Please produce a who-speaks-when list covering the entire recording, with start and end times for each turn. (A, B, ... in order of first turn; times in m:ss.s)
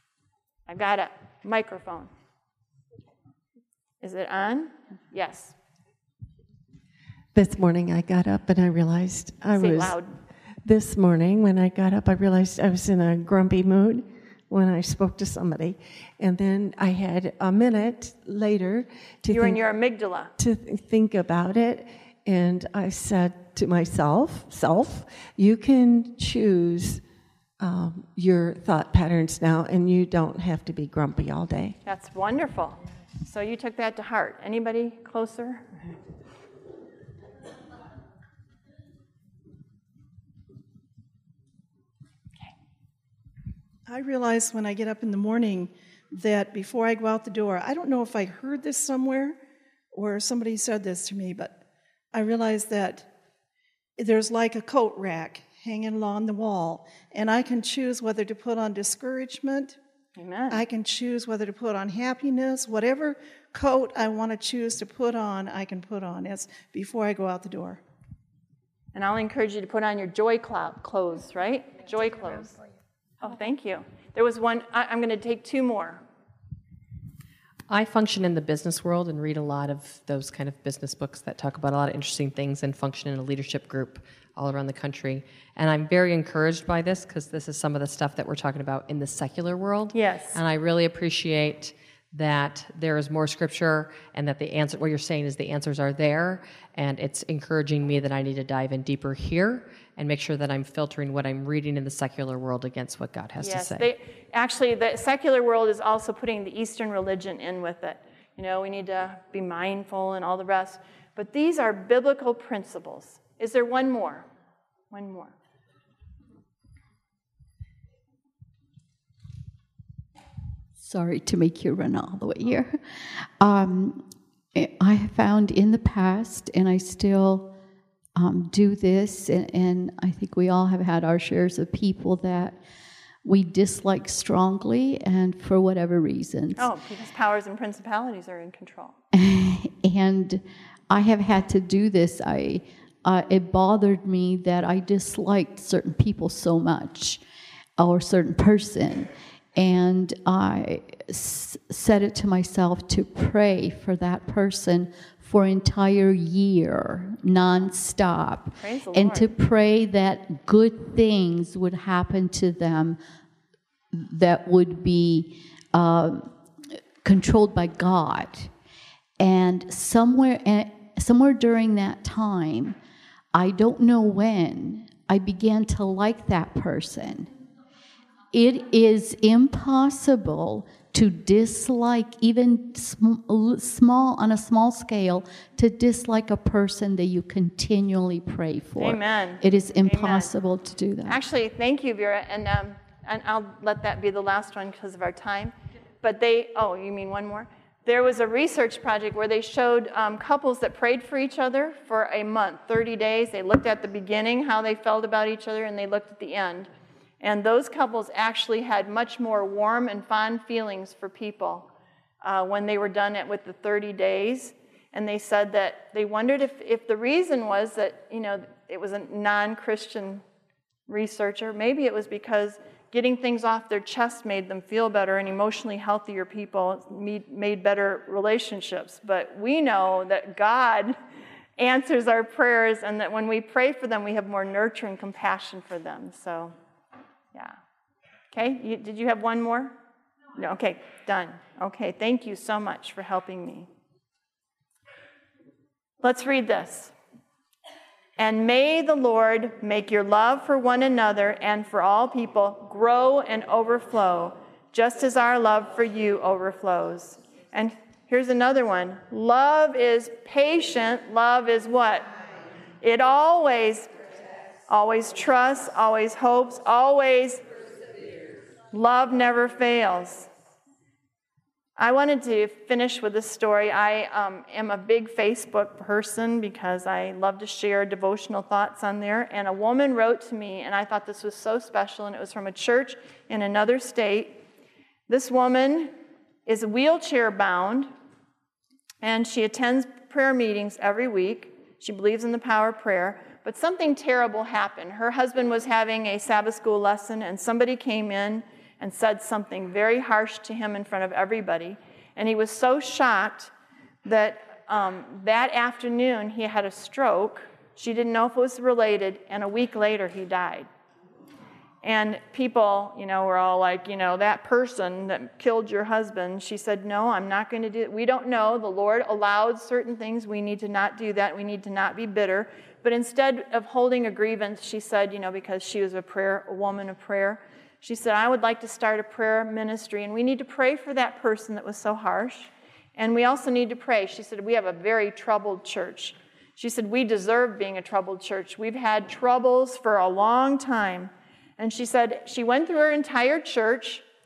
0:00.7-0:02.1 A
0:04.0-0:05.6 A
0:07.3-0:10.0 B
0:09.5-0:10.2 A
0:10.6-0:19.6 B
0:19.3-0:20.3 A
0:20.4-0:27.0 B
0:27.6-0:31.8 B
0:31.8-0:35.7 A
0:43.9-0:49.4 C
0:49.9-0:51.6 C
0:52.1-0:53.1 C
0:54.0-0:59.8 C
1:00.2-1:00.6 A
1:00.5-1:07.8 C
1:08.9-1:12.6 A
1:13.2-1:16.0 A
1:17.7-1:43.8 D
1:29.9-1:30.4 A
1:43.4-1:54.3 A
1:54.9-1:55.3 A
2:00.8-2:07.5 E
2:08.2-2:12.6 E
2:13.2-2:16.7 E
2:16.6-2:19.0 A
2:19.1-2:27.2 E
2:27.8-2:43.0 E
2:38.5-2:39.3 A
2:43.9-2:46.3 E
2:47.0-2:48.5 E
2:49.2-2:52.8 E
2:53.3-2:57.3 E
2:58.3-3:11.2 E
3:08.8-3:10.3 A
3:11.0-3:26.7 A
3:27.2-3:31.7 A
3:32.2-3:40.2 A
3:40.9-3:51.0 A
3:51.6-3:56.5 A
3:58.3-3:59.7 A
4:00.4-4:03.7 A
4:06.0-4:06.9 A
4:08.2-4:22.1 A
4:22.8-4:23.9 A
4:24.7-4:27.4 A
4:28.7-4:30.3 A
4:31.8-4:44.4 A
4:45.1-4:47.9 A
4:49.0-5:03.5 A
5:04.0-5:10.7 A
5:11.8-5:44.0 A